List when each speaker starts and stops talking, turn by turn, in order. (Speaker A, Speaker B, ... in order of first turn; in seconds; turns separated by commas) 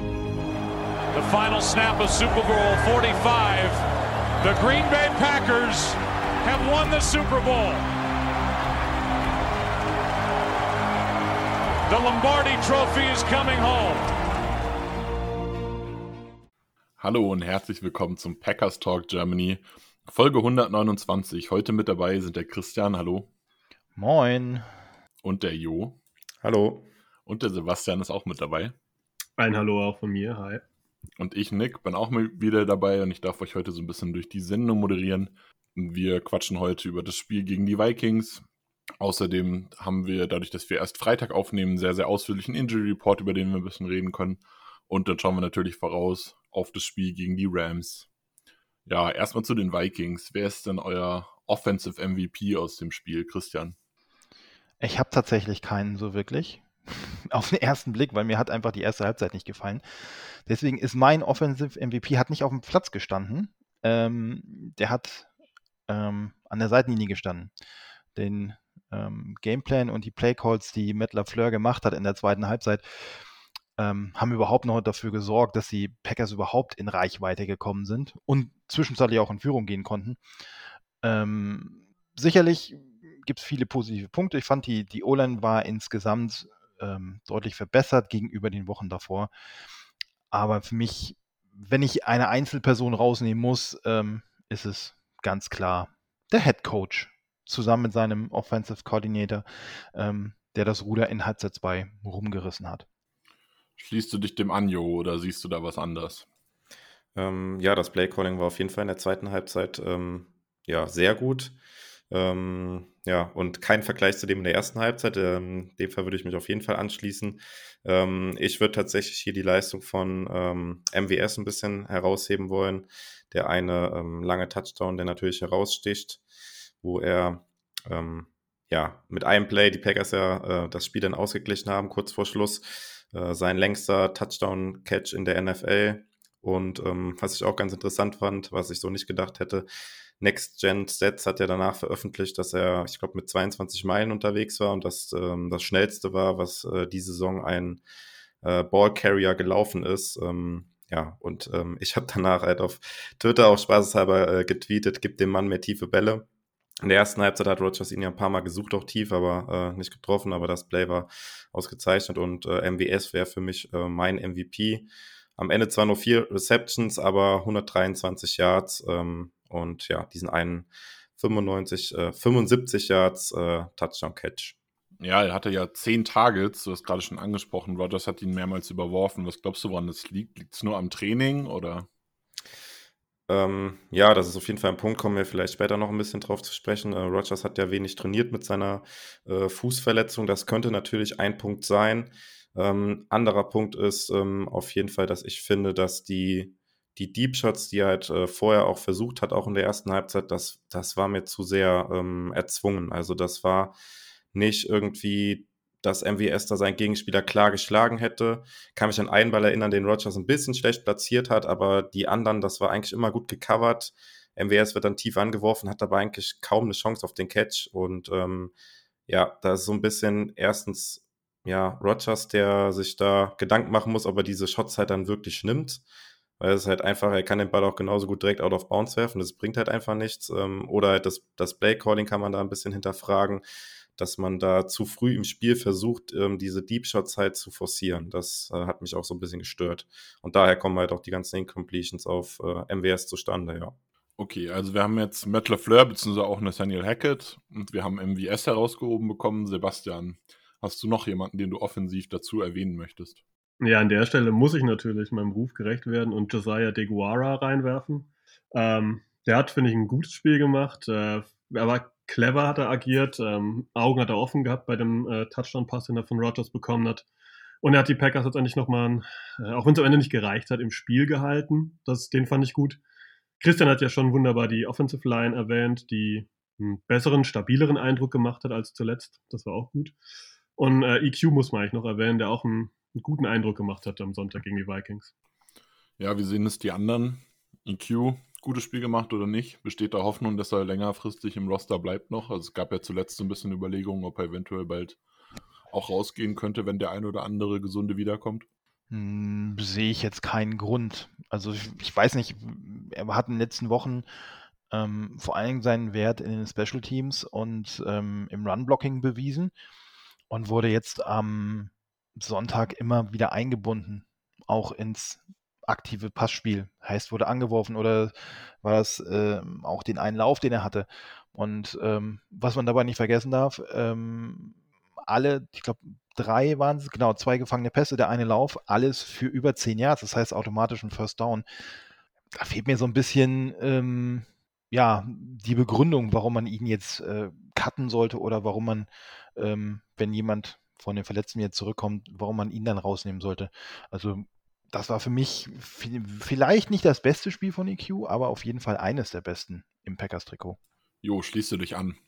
Speaker A: 1.1-3.8, Speaker A: 4.4-7.8, Speaker A: 11.9-14.1, Speaker B: 17.0-23.3, Speaker C: 24.0-24.6, Speaker B: 25.2-26.0, Speaker D: 26.4-26.9, Speaker B: 27.3-28.8, Speaker E: 29.4-30.6, Speaker B: 31.2-38.4, Speaker B: 39.0-48.1, Speaker B: 48.9-53.8, Speaker C: 54.8-65.3, Speaker C: 65.9-67.5, Speaker C: 68.2-73.1, Speaker C: 73.8-80.2, Speaker C: 81.0-89.3, Speaker C: 90.3-102.8, Speaker B: 103.8-106.2, Speaker D: 107.2-111.6, Speaker D: 112.1-126.2, Speaker D: 126.8-139.7, Speaker D: 140.2-147.8, Speaker D: 148.4-156.3, Speaker D: 156.8-174.6, Speaker B: 175.0-181.9, Speaker D: 183.3-203.8, Speaker D: 204.3-218.5, Speaker D: 219.1-225.8, Speaker D: 226.4-233.4, Speaker D: 234.0-243.8, Speaker B: 244.2-253.2, Speaker E: 253.6-267.1, Speaker E: 267.6-272.8, Speaker E: 273.4-279.9, Speaker E: 280.6-285.1, Speaker B: 286.0-295.0, Speaker B: 295.7-298.5, Speaker C: 298.9-304.1, Speaker C: 304.7-309.5, Speaker C: 310.3-324.6, Speaker C: 325.1-331.4, Speaker C: 332.4-350.6, Speaker B: 351.0-352.0